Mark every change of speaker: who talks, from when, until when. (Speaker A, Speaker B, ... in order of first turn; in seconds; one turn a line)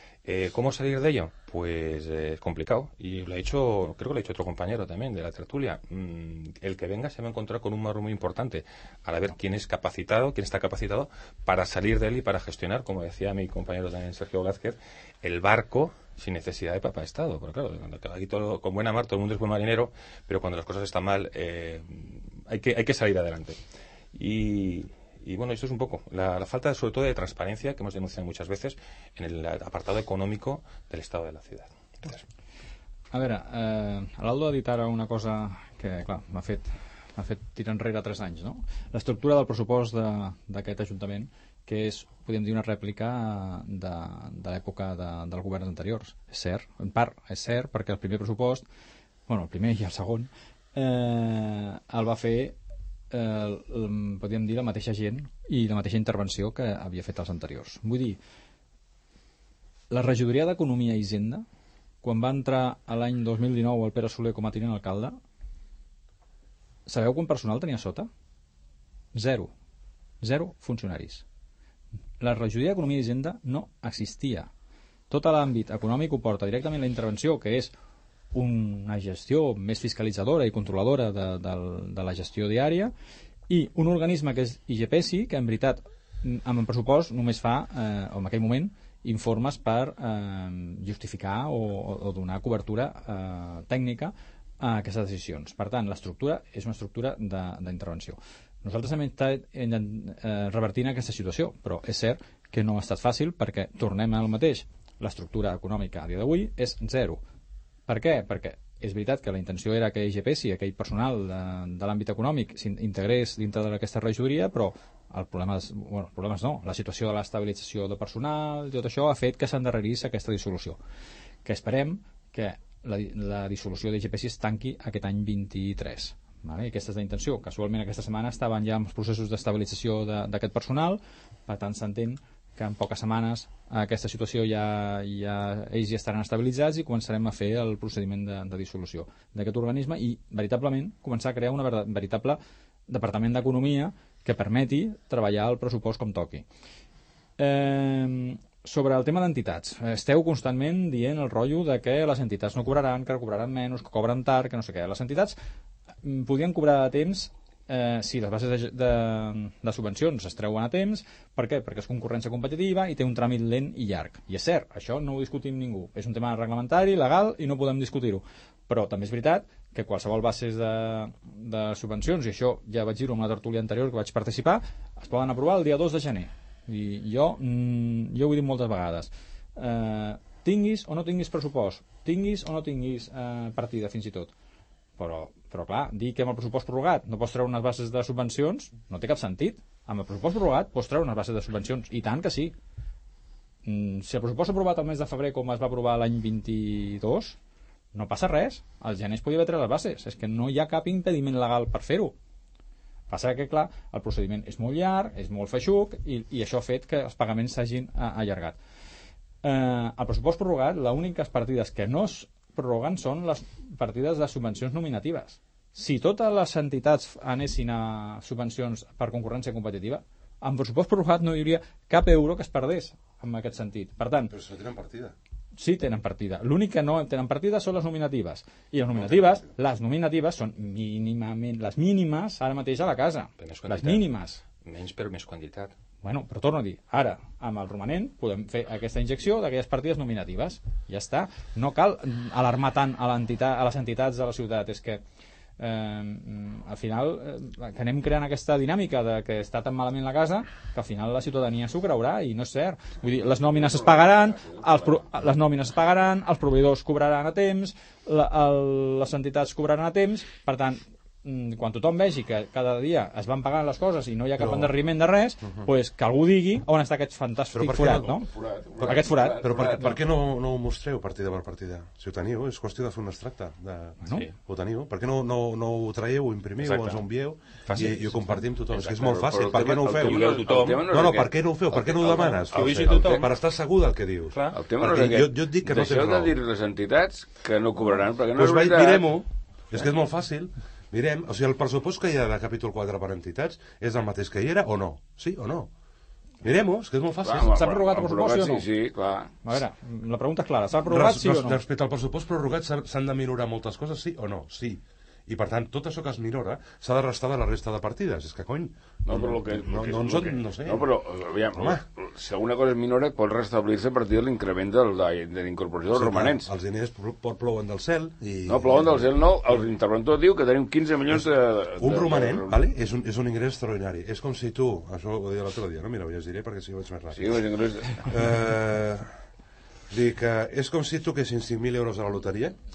Speaker A: 0.2-23.6
Speaker A: 24.1-32.2
Speaker B: 33.1-48.6
Speaker B: 49.3-52.6
Speaker B: 53.1-58.2
Speaker B: 59.9-61.4
Speaker B: 62.0-65.2
Speaker B: 66.8-68.1
Speaker B: 69.1-69.5
Speaker B: 70.2-71.2
Speaker B: 72.2-74.5
Speaker B: 75.1-77.7
Speaker B: 78.3-82.9
Speaker B: 83.5-107.2
Speaker B: 107.9-120.8
Speaker B: 121.4-146.4
Speaker B: 147.4-155.3
Speaker B: 156.0-184.3
Speaker B: 185.0-192.5
Speaker B: 193.6-197.4
Speaker B: 197.9-202.1
Speaker B: 203.1-208.6
Speaker B: 209.4-224.3
Speaker C: 224.3-225.1
Speaker B: 225.6-234.4
Speaker C: 228.9-229.5
Speaker A: 233.4-234.1
Speaker A: 234.6-235.7
Speaker B: 236.0-245.0
Speaker B: 245.6-268.3
Speaker D: 253.3-254.9
Speaker C: 264.4-264.7
Speaker C: 265.4-265.7
Speaker C: 267.5-268.2
Speaker D: 268.2-269.9
Speaker C: 268.8-286.3
Speaker B: 268.8-269.9
Speaker A: 276.6-277.0
Speaker A: 277.6-278.1
Speaker D: 278.7-283.2
Speaker A: 279.3-281.0
Speaker A: 282.5-283.3
Speaker A: 284.3-284.6
Speaker D: 284.5-289.1
Speaker C: 288.3-295.7
Speaker C: 296.4-297.6
Speaker D: 297.2-299.3
Speaker B: 297.5-298.6
Speaker B: 299.4-301.6
Speaker C: 300.9-310.9
Speaker D: 309.0-316.5
Speaker C: 311.5-311.8
Speaker C: 315.9-319.1
Speaker D: 318.5-322.6
Speaker C: 321.8-327.4
Speaker D: 327.1-328.1
Speaker C: 328.0-329.1
Speaker C: 329.9-332.6